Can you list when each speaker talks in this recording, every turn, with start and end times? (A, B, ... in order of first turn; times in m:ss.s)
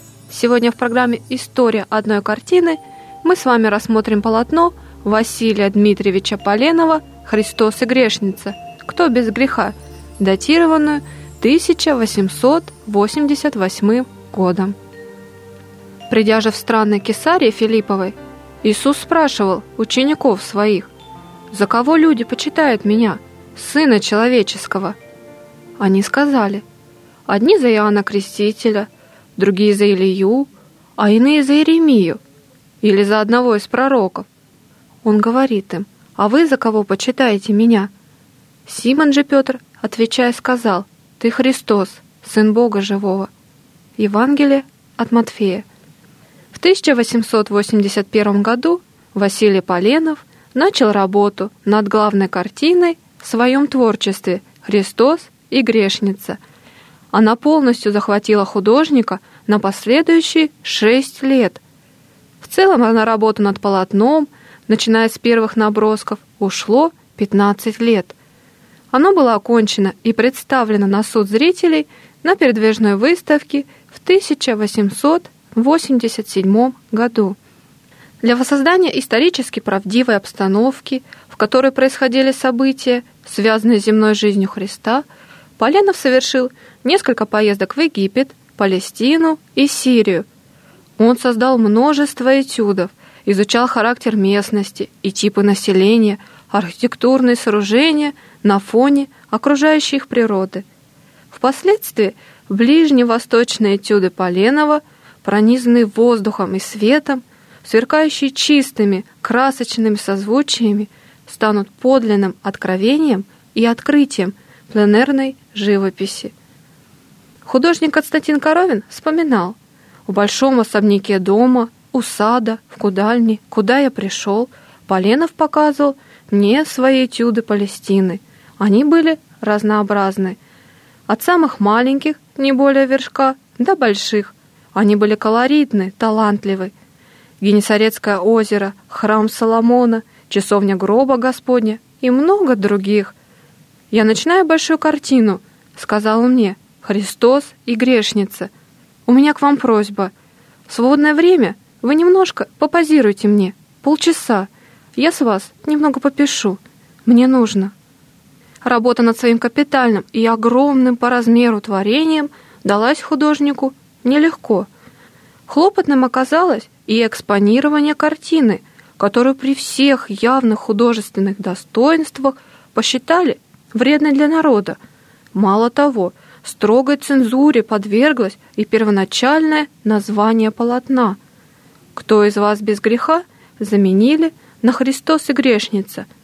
0:00.3-0:14.8 A
0:16.1-0:20.9 A
0:21.5-0:25.0 A
0:25.8-0:26.6 A
0:27.3-0:32.2 A
0:32.8-0:34.3 A
0:35.0-0:37.9 A
0:38.6-0:43.3 A
0:44.0-0:45.6 A
0:46.5-0:56.4 A
0:57.1-1:01.6 A
1:02.4-1:08.1 A
1:08.9-1:17.4 A
1:18.2-1:25.0 A
1:25.6-1:30.3 A
1:31.0-1:40.6 A
1:41.3-1:56.3 A
1:57.4-2:10.4 A
2:11.1-2:16.7 A
2:17.4-2:23.1 A
2:23.9-2:28.5 A
2:29.0-2:30.1 A
2:30.7-2:37.7 A
2:38.6-2:44.7 A
2:45.5-2:54.8 A
2:55.3-3:01.2 A
3:01.9-3:06.1 A